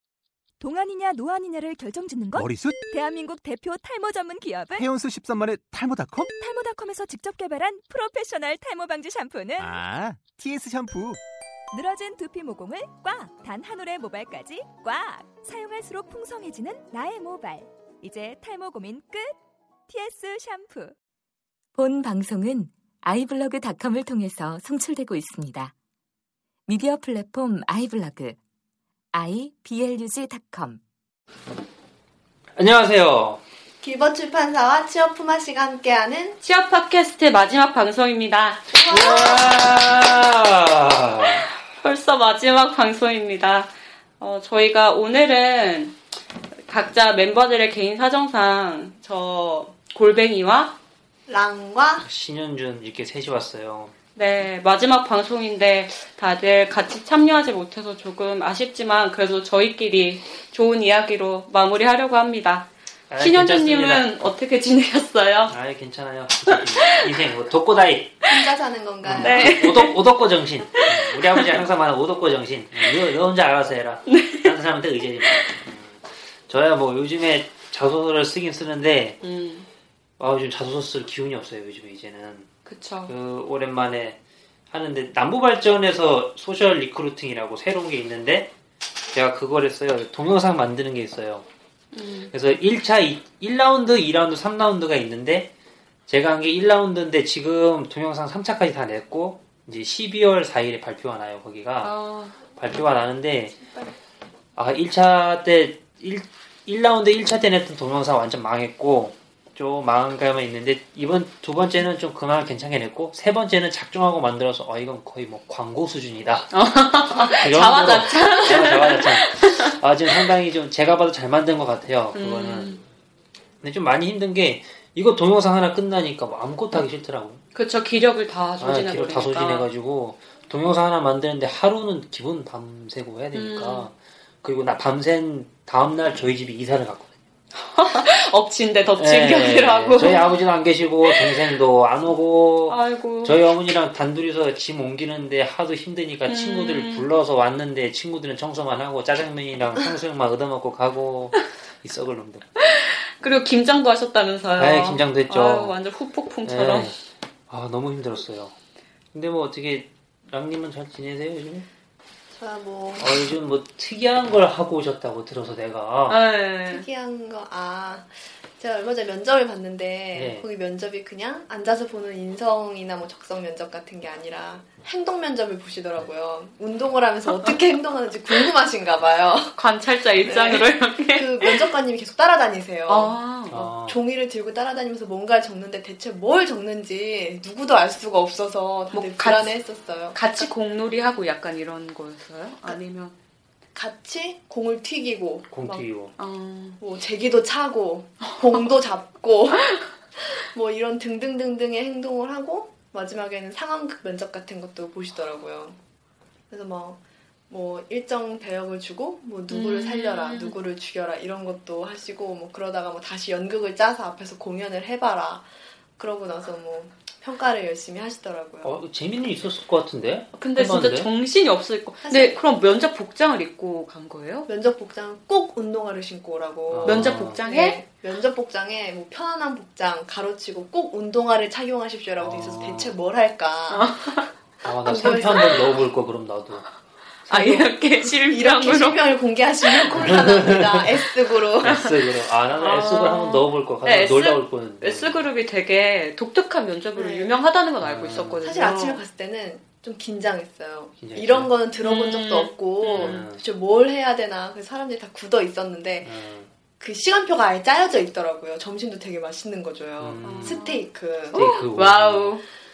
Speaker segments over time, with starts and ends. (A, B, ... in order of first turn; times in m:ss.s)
0:00.6-0:04.8 A
0:02.3-0:02.8 B
0:04.7-0:06.3 B
0:06.2-0:09.7 A
0:09.6-0:11.2 B
0:11.7-0:19.4 A
0:19.9-0:20.9 A
0:21.8-0:25.7 C
0:26.7-0:28.4 C
0:29.1-0:30.8 C
0:32.6-0:33.4 D
0:33.8-0:36.4 E
0:36.4-0:39.8 F
0:38.7-0:39.1 E
0:38.9-0:41.4 D
0:41.4-0:46.0 F
0:46.7-0:50.8 F
0:51.3-0:52.1 E
0:52.0-0:53.9 D
0:54.1-1:05.5 F
1:03.1-1:04.1 D
1:05.5-1:08.2 D
1:06.5-1:07.2 F
1:08.3-1:09.5 E
1:09.0-1:19.2 D
1:09.1-1:10.1 F
1:10.7-1:11.5 F
1:14.1-1:14.5 F
1:19.2-1:19.7 F
1:20.2-1:22.5 D
1:22.6-1:23.1 F
1:23.1-1:24.2 D
1:24.7-1:28.5 D
1:29.1-1:31.4 D
1:31.9-1:32.3 F
1:32.3-1:35.5 D
1:36.1-1:41.9 D
1:41.8-1:42.4 F
1:42.6-1:43.6 D
1:44.6-1:56.5 D
1:56.5-2:00.3 F
1:57.1-2:02.8 D
2:02.1-2:02.8 F
2:03.6-2:07.4 D
2:07.5-2:09.7 F
2:08.6-2:17.1 D
2:13.3-2:13.9 F
2:17.5-2:20.4 F
2:19.0-2:32.4 D
2:21.0-2:21.5 F
2:22.7-2:23.5 F
2:26.2-2:27.0 F
2:32.6-2:36.9 F
2:34.6-2:35.7 D
2:36.4-2:37.0 D
2:37.5-2:38.5 D
2:39.1-2:41.7 D
2:42.3-2:43.2 E
2:43.0-2:46.2 D
2:46.1-2:46.8 F
2:46.7-2:59.5 E
2:50.1-2:50.4 D
2:59.5-3:01.7 F
3:00.2-3:10.5 E
3:02.9-3:03.6 F
3:03.5-3:04.0 D
3:08.9-3:09.5 F
3:10.1-3:13.1 F
3:13.7-3:15.9 E
3:15.5-3:16.1 D
3:16.2-3:16.8 F
3:16.8-3:25.8 E
3:18.4-3:18.7 F
3:26.5-3:27.0 E
3:27.5-3:38.8 E
3:29.5-3:30.5 F
3:38.6-3:41.1 D
3:40.3-3:44.5 F
3:42.0-3:42.8 E
3:44.5-3:55.8 E
3:46.7-3:47.4 D
3:46.8-3:47.8 F
3:52.2-3:52.9 D
3:53.7-3:54.3 F
3:54.6-3:56.7 D
3:57.3-3:59.1 F
3:57.3-4:01.8 E
3:59.6-4:00.1 F
3:59.9-4:01.0 D
4:01.6-4:05.3 D
4:01.6-4:09.0 F
4:07.0-4:07.4 E
4:07.8-4:08.4 D
4:08.4-4:16.2 E
4:11.0-4:11.5 D
4:11.8-4:13.3 F
4:12.9-4:13.4 D
4:16.0-4:16.5 D
4:16.8-4:21.4 E
4:20.0-4:20.6 D
4:20.2-4:22.4 F
4:21.3-4:22.4 D